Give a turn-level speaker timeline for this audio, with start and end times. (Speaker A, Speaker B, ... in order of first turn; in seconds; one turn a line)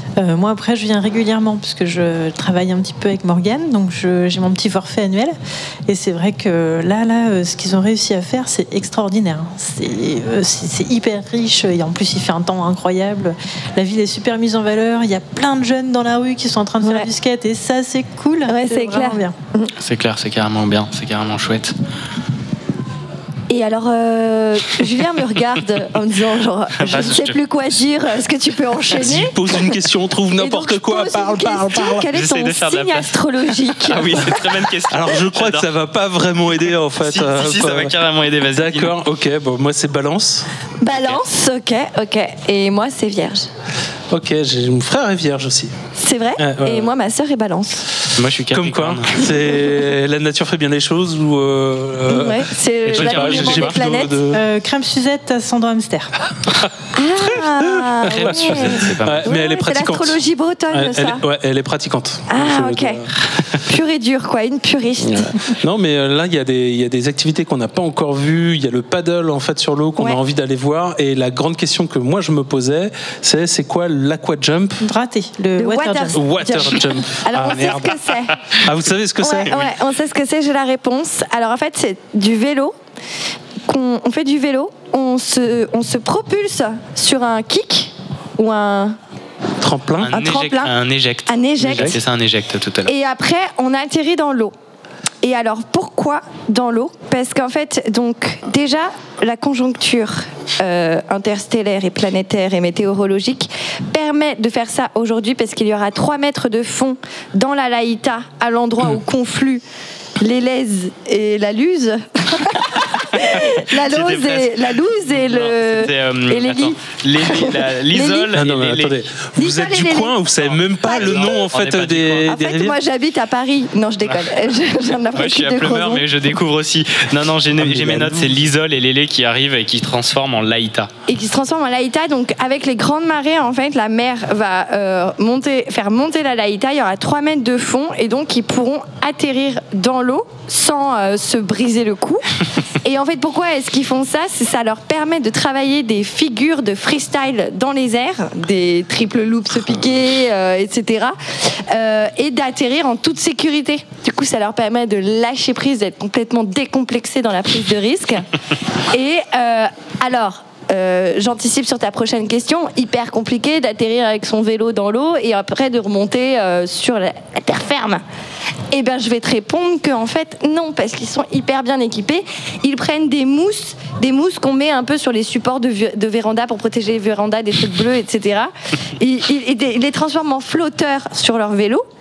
Speaker A: 0.2-5.3
Speaker A: 5.9-19.3
Speaker B: 16.8-17.1
Speaker B: 18.5-19.7
Speaker C: 19.8-21.7
Speaker B: 23.5-29.7
Speaker C: 26.8-27.4
Speaker D: 28.9-32.1
Speaker B: 30.4-34.6
Speaker C: 32.1-33.1
Speaker C: 33.8-35.7
Speaker D: 34.9-40.5
Speaker C: 37.0-39.0
Speaker B: 40.8-43.5
Speaker C: 40.9-41.2
Speaker D: 44.1-45.7
Speaker B: 46.0-47.9
Speaker D: 46.4-46.9
Speaker C: 48.1-49.3
Speaker D: 48.5-54.4
Speaker B: 52.1-54.2
Speaker C: 52.8-53.8
Speaker A: 54.3-56.1
Speaker B: 56.9-61.2
Speaker D: 57.2-60.2
Speaker C: 58.1-59.3
Speaker D: 60.7-63.1
Speaker B: 62.3-63.0
Speaker B: 63.6-65.4
Speaker D: 65.0-74.8
Speaker A: 74.8-76.2
Speaker B: 75.6-78.6
Speaker D: 76.1-79.7
Speaker B: 79.2-82.7
Speaker B: 83.6-89.0
Speaker D: 89.6-90.2
Speaker C: 90.0-92.9
Speaker B: 90.1-90.7
Speaker B: 91.3-92.0
Speaker B: 92.9-94.5
Speaker B: 95.2-109.6
Speaker B: 110.2-118.3
Speaker C: 113.0-119.0
Speaker D: 118.3-122.8
Speaker B: 119.4-120.1
Speaker B: 120.8-121.5
Speaker C: 120.9-122.3
Speaker B: 122.2-126.0
Speaker C: 125.1-130.9
Speaker D: 127.6-128.4
Speaker B: 131.1-158.2
Speaker B: 158.9-168.0
Speaker B: 168.7-181.8